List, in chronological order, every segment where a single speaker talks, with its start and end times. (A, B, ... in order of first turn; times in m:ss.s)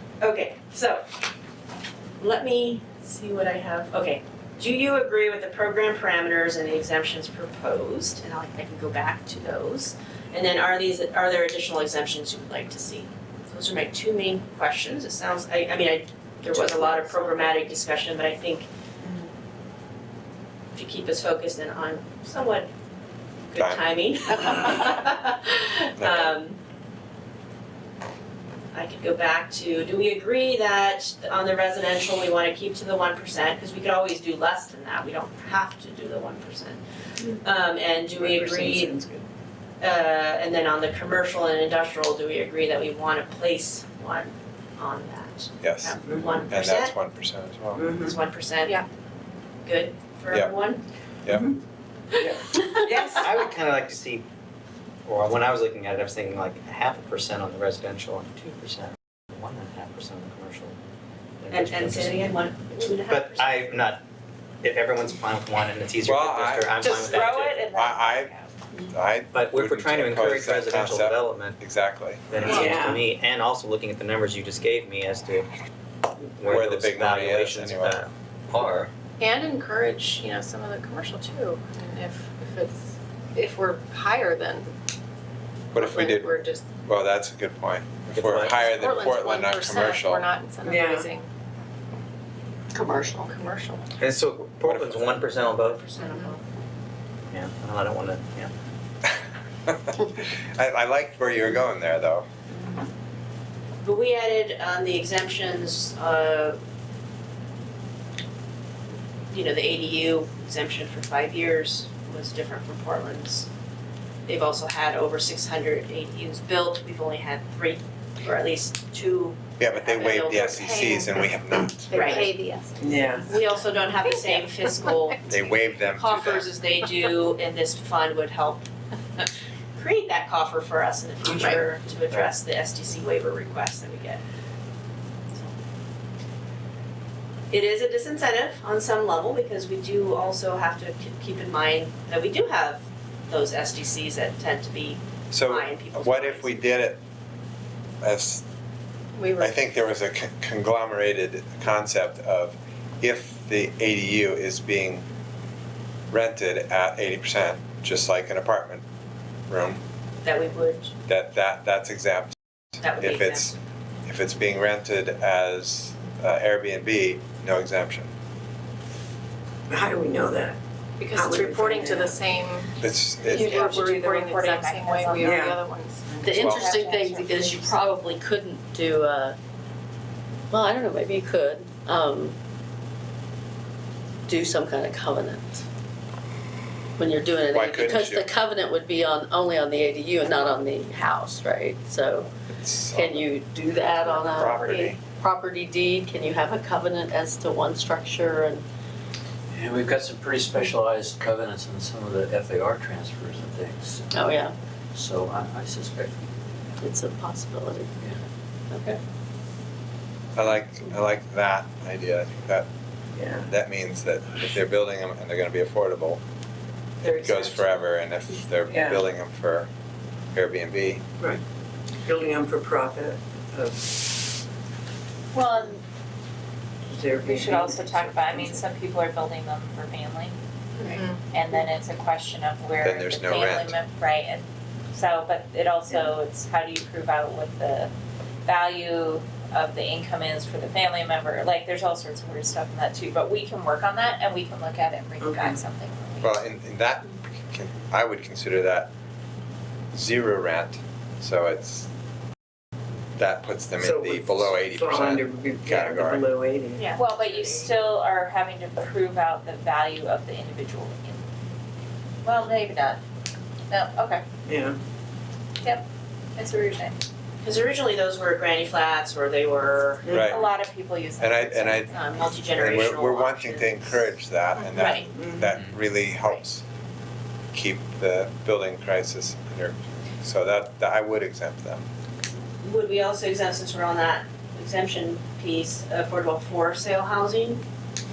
0:00.2-0:01.0 A
0:02.2-0:18.7 A
0:20.7-0:22.7 A
0:23.5-0:26.6 A
0:23.6-0:23.8 B
0:26.0-0:26.4 B
0:28.7-0:36.8 A
0:37.3-0:39.0 A
0:38.1-0:39.2 C
0:39.8-0:46.9 A
0:45.6-0:47.9 B
0:46.0-0:46.3 C
0:47.7-0:48.2 C
0:48.0-0:48.8 A
0:49.6-0:50.8 A
0:51.3-0:51.6 C
0:52.2-0:54.3 D
0:55.0-1:00.8 D
1:01.4-1:02.4 D
1:01.5-1:03.7 A
1:03.0-1:04.0 D
1:04.6-1:07.7 D
1:06.0-1:06.7 B
1:06.8-1:08.5 E
1:07.7-1:08.3 B
1:08.9-1:12.4 B
1:09.3-1:11.6 D
1:12.3-1:15.5 D
1:12.5-1:13.0 C
1:16.3-1:18.9 D
1:16.4-1:18.0 B
1:19.2-1:22.8 F
1:23.3-1:24.7 F
1:25.7-1:30.3 B
1:25.7-1:26.6 F
1:28.1-1:28.7 D
1:28.7-1:31.3 F
1:30.6-1:31.1 C
1:32.7-1:33.3 G
1:33.2-1:33.9 F
1:34.0-1:35.8 D
1:34.6-1:35.1 B
1:35.6-1:36.4 A
1:37.3-1:38.5 D
1:39.7-1:42.3 B
1:43.8-1:46.6 A
1:49.3-1:53.5 A
1:54.2-2:00.6 A
1:59.6-2:02.2 B
2:00.0-2:01.2 F
2:01.9-2:02.3 A
2:01.9-2:03.0 F
2:02.8-2:03.3 C
2:03.2-2:08.7 A
2:05.3-2:06.5 B
2:09.2-2:14.2 A
2:11.2-2:11.5 C
2:17.5-2:26.6 A
2:25.3-2:27.0 B
2:28.0-2:28.4 B
2:29.2-2:29.6 F
2:29.4-2:35.0 B
2:36.1-2:38.8 B
2:39.5-2:39.8 B
2:40.2-2:40.9 A
2:41.1-2:42.3 B
2:42.8-2:43.6 A
2:43.0-2:43.5 B
2:44.0-2:48.1 B
2:49.7-2:50.6 C
2:51.0-2:56.1 F
2:51.1-2:52.2 C
2:52.8-2:53.9 B
2:53.3-2:55.4 E
2:55.2-2:55.6 C
2:56.2-2:59.4 G
2:56.2-2:57.8 E
2:56.3-2:56.7 B
3:00.5-3:02.4 G
3:04.3-3:05.6 G
3:07.0-3:12.3 G
3:07.5-3:08.3 B
3:12.5-3:13.3 B
3:12.9-3:18.6 G
3:14.0-3:15.0 B
3:19.5-3:24.0 H
3:24.1-3:24.5 G
3:24.9-3:26.2 H
3:26.8-3:27.9 G
3:28.7-3:29.0 G
3:30.3-3:32.7 B
3:33.1-3:33.5 C
3:33.5-3:36.2 B
3:37.0-3:37.7 C
3:37.1-3:39.7 B
3:38.7-3:39.0 C
3:40.3-3:41.0 B
3:42.0-3:44.1 C
3:45.3-3:45.8 E
3:46.9-3:48.7 C
3:47.2-3:57.9 E
3:52.8-3:53.8 B
3:58.4-4:06.4 E
4:05.2-4:05.6 C
4:06.2-4:08.9 B
4:09.9-4:11.9 B
4:13.2-4:16.3 B
4:13.8-4:16.9 C
4:16.8-4:17.8 A
4:16.9-4:21.2 E
4:22.2-4:23.0 E
4:23.7-4:24.2 E
4:24.4-4:24.8 C
4:26.4-4:27.0 E
4:27.4-4:30.1 A
4:30.0-4:30.3 C
4:30.1-4:30.5 B
4:30.2-4:31.9 E
4:31.2-4:36.6 B
4:31.9-4:34.0 A
4:34.8-4:35.1 A
4:35.1-4:35.7 C
4:37.5-4:41.8 B
4:42.6-4:47.6 A